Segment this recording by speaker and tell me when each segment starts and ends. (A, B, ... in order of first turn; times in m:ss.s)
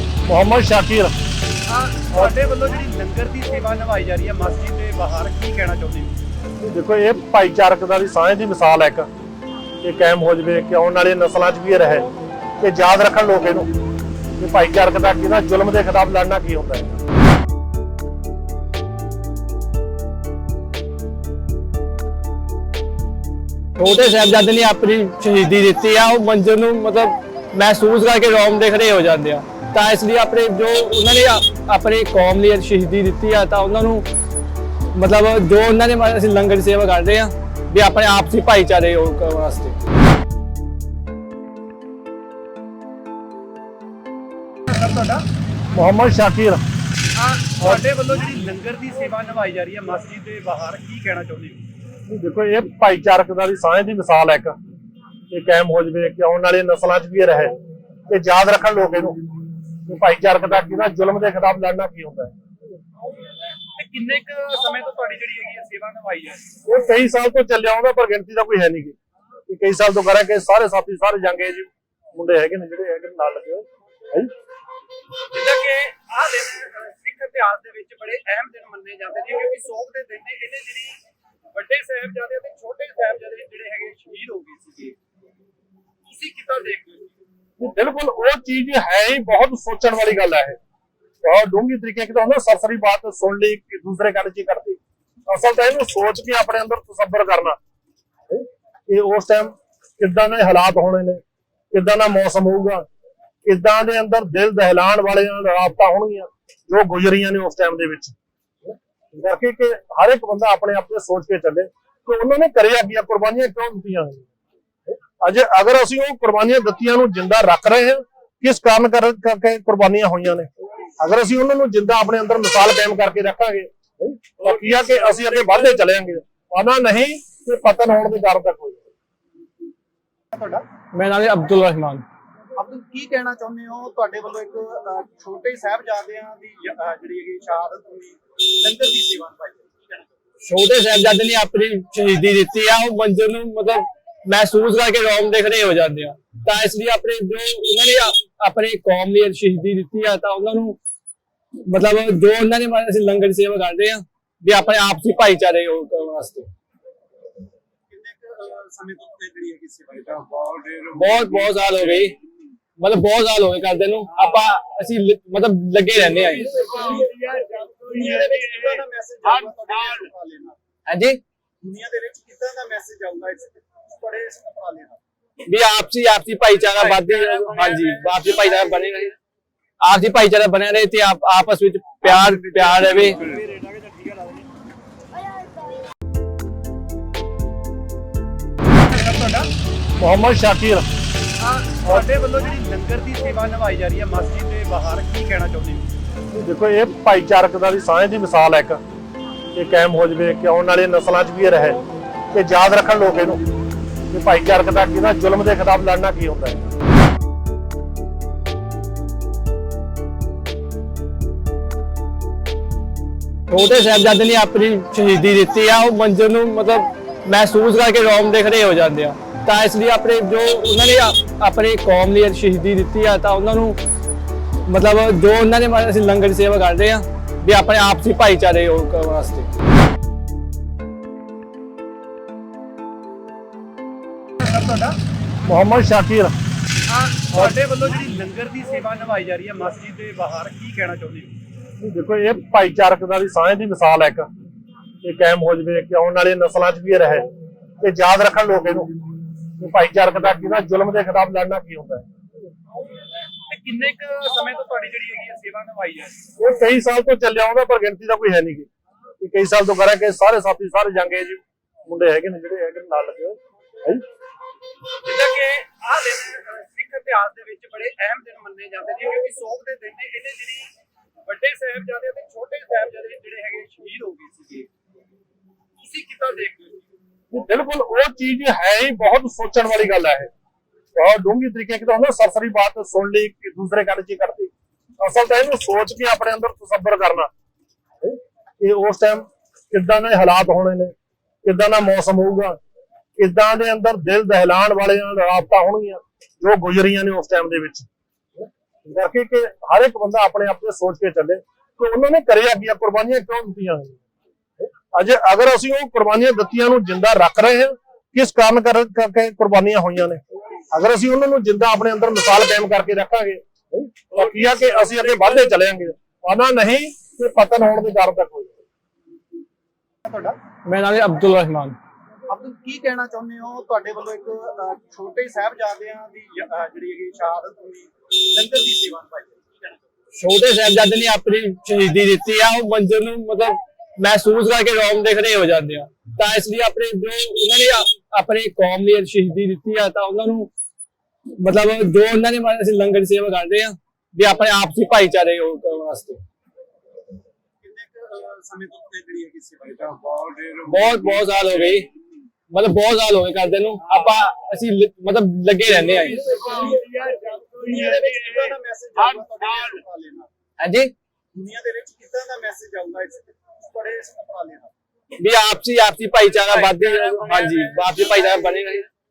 0:00.3-0:01.1 A
0:01.7-0:06.2 B
0:06.6-0:09.1 A
0:09.8-0:12.1 A
0:12.6-0:13.7 A
0:14.4-0:17.0 A
0:23.8-0:34.1 C
0:34.9-0:39.8 C
0:44.7-0:45.3 B
0:45.7-0:46.6 A
0:47.2-0:51.6 B
0:52.1-0:54.6 A
0:55.3-0:57.6 A
0:58.1-0:59.2 A
0:59.9-1:02.3 A
1:03.7-1:06.5 B
1:06.6-1:09.0 A
1:09.5-1:14.3 A
1:15.3-1:21.0 B
1:21.5-1:25.0 B
1:26.1-1:27.1 B
1:27.6-1:30.6 A
1:31.2-1:37.6 A
1:38.3-1:41.2 A
1:41.7-1:42.9 A
1:43.4-1:48.2 A
1:49.1-1:54.3 A
1:55.0-2:08.9 A
2:10.3-2:10.7 B
2:10.9-2:12.0 C
2:12.6-2:20.1 B
2:20.4-2:30.8 C
2:31.7-2:36.5 C
2:37.9-2:40.6 B
2:40.8-2:42.2 C
2:42.8-2:47.1 C
2:46.9-2:50.6 B
2:50.9-2:51.2 C
2:51.6-2:55.0 B
2:55.4-2:59.1 C
2:56.8-2:58.0 B
2:59.8-3:03.2 C
3:08.7-3:09.5 B
3:10.0-3:10.9 A
3:11.4-3:15.9 B
3:16.3-3:18.8 A
3:19.5-3:21.8 A
3:22.3-3:23.4 A
3:24.1-3:26.7 A
3:33.5-3:43.8 C
3:44.7-3:49.5 C
3:54.4-3:55.0 B
3:55.4-3:56.3 A
3:56.9-4:01.4 B
4:01.8-4:04.3 A
4:05.0-4:07.3 A
4:07.8-4:08.9 A
4:09.6-4:12.1 A
4:13.5-4:16.2 B
4:16.4-4:18.7 A
4:19.2-4:24.0 A
4:25.0-4:30.7 B
4:31.2-4:34.7 B
4:35.8-4:36.9 B
4:37.3-4:40.3 A
4:41.0-4:47.3 A
4:48.0-4:52.6 A
4:53.2-4:57.9 A
4:58.8-5:04.0 A
5:04.6-5:18.6 A
5:20.0-5:20.4 B
5:20.6-5:21.8 C
5:22.3-5:29.8 B
5:30.2-5:40.5 C
5:41.4-5:46.2 C
5:47.6-5:50.4 B
5:50.6-5:51.9 C
5:52.5-5:56.7 C
5:56.5-6:00.3 B
6:00.6-6:00.9 C
6:01.3-6:04.7 B
6:05.2-6:08.9 C
6:06.5-6:08.0 B